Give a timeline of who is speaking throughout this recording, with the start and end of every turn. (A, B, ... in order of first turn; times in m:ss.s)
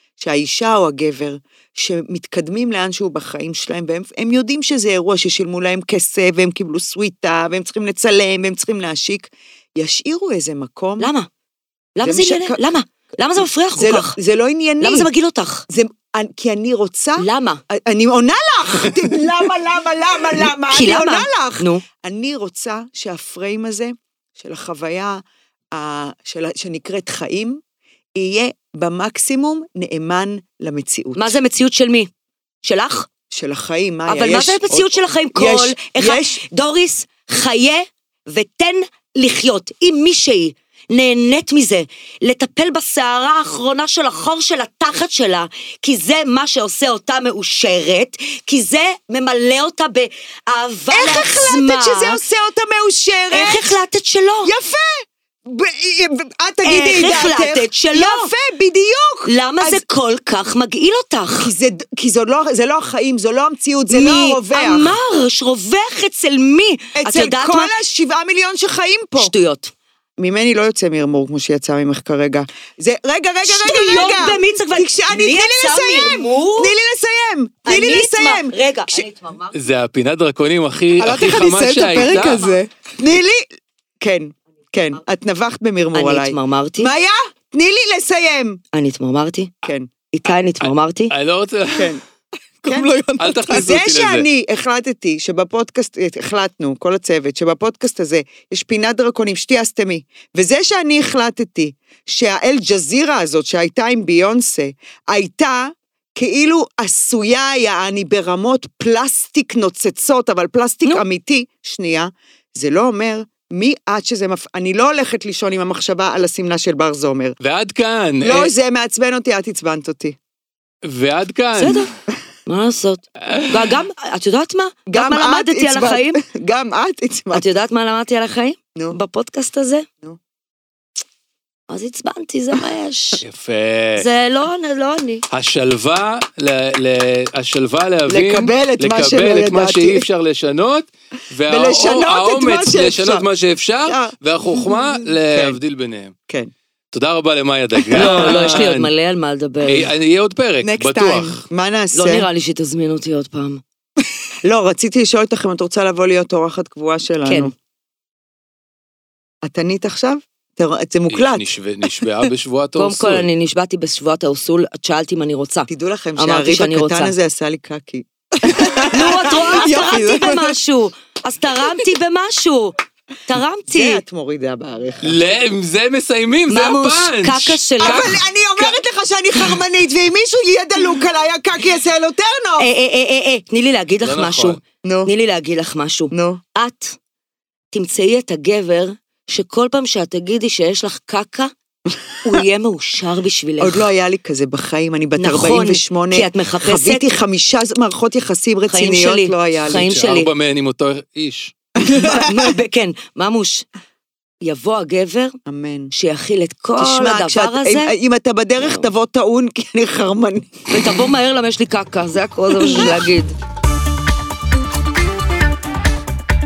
0:00.2-0:11.1 A
0:11.0-0:11.3 B
0:12.0-0:14.2 B
0:12.0-0:12.6 A
0:13.8-0:15.1 A
0:14.8-0:15.6 B
0:15.7-0:27.6 A
0:17.2-0:17.6 B
0:20.7-0:21.8 B
0:28.2-0:31.4 A
0:31.2-0:32.1 B
0:32.6-0:33.1 B
0:33.3-0:34.6 A
0:34.1-0:52.2 B
0:35.3-0:36.4 A
0:50.9-0:53.8 A
0:53.3-0:54.5 B
0:54.4-0:59.8 A
0:56.6-0:58.3 B
0:59.3-1:01.5 B
1:01.4-1:05.0 A
1:03.9-1:07.7 B
1:07.0-1:09.3 A
1:09.2-1:09.7 B
1:10.2-1:19.0 A
1:13.4-1:16.7 B
1:17.7-1:19.6 B
1:19.5-1:22.5 C
1:21.0-1:22.7 D
1:23.0-1:23.5 A
1:24.0-1:28.6 A
1:25.9-1:26.9 B
1:28.7-1:29.5 B
1:29.6-1:29.9 A
1:30.1-1:31.1 B
1:30.6-1:32.0 C
1:31.8-1:32.0 A
1:32.6-1:33.8 D
1:32.7-1:32.9 A
1:33.2-1:34.3 C
1:33.5-1:57.4 A
1:57.4-1:58.5 C
1:58.2-2:00.2 A
2:00.8-2:01.9 C
2:01.6-2:01.9 B
2:02.5-2:06.2 B
2:03.3-2:03.8 C
2:04.9-2:07.4 A
2:07.3-2:09.9 B
2:11.7-2:13.2 B
2:13.2-2:14.1 C
2:14.0-2:15.2 B
2:15.3-2:26.1 C
2:18.1-2:20.1 A
2:21.5-2:23.3 A
2:23.9-2:25.6 A
2:26.9-2:28.9 C
2:27.9-2:28.6 A
2:28.0-2:29.9 B
2:29.7-2:31.4 C
2:30.6-2:32.3 A
2:30.7-2:31.3 D
2:31.9-2:33.6 B
2:34.4-2:37.5 A
2:37.3-2:37.5 B
2:39.4-2:41.4 A
2:41.1-2:43.3 C
2:42.8-2:47.1 B
2:45.7-2:50.0 A
2:48.4-2:50.6 D
2:48.9-2:52.8 B
2:53.3-2:54.0 B
2:53.7-2:55.2 A
2:55.0-2:58.2 C
2:56.5-2:58.7 B
2:57.8-3:02.7 A
3:02.6-3:07.0 B
3:04.0-3:04.6 C
3:04.8-3:05.1 A
3:06.1-3:06.4 A
3:07.7-3:11.5 B
3:12.2-3:13.9 B
3:13.6-3:19.9 A
3:15.2-3:17.0 B
3:18.7-3:20.3 B
3:19.6-3:21.6 C
3:21.8-3:22.3 A
3:22.0-3:23.7 B
3:24.4-3:25.4 B
3:25.5-3:25.9 A
3:25.9-3:27.9 B
3:26.8-3:31.0 A
3:30.7-3:33.4 B
3:32.7-3:33.0 A